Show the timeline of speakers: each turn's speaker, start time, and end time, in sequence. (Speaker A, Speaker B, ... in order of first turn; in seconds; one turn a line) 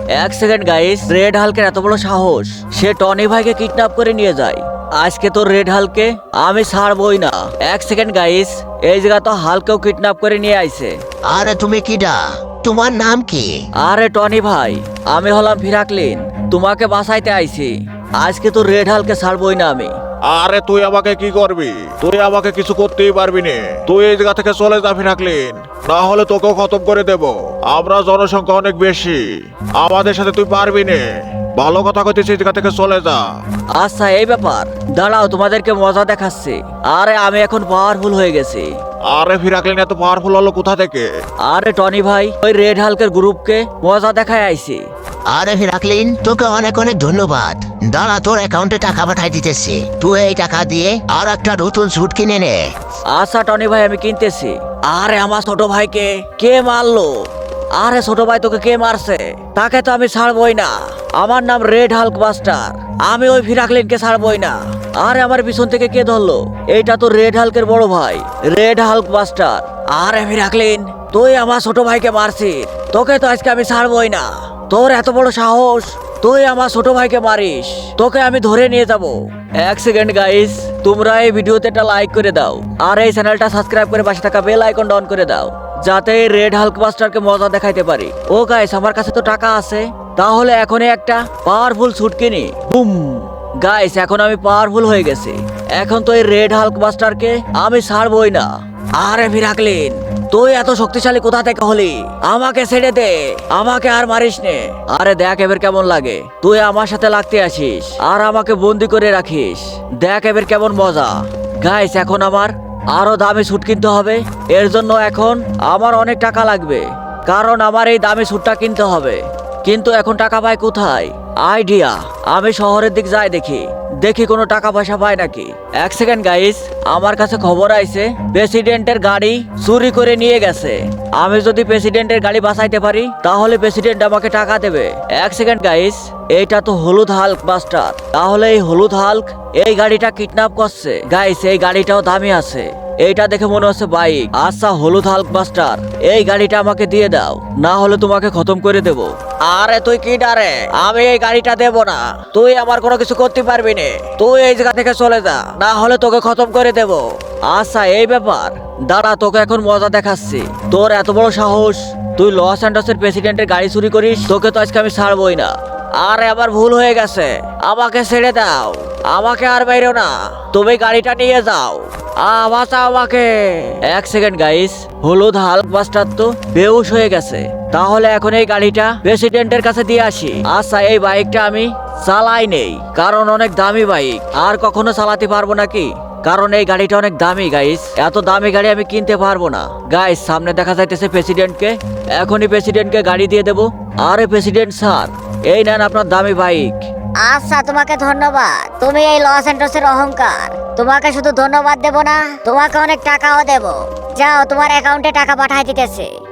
Speaker A: 0.1-11.0
Speaker B: 11.2-13.6
Speaker A: 13.8-19.9
Speaker C: 20.2-31.0
Speaker C: 31.6-33.4
Speaker A: 33.7-38.7
Speaker C: 39.1-41.1
Speaker A: 41.4-44.9
Speaker B: 45.3-52.7
Speaker A: 53.1-57.1
Speaker A: 57.7-196.8
Speaker D: 197.2-206.1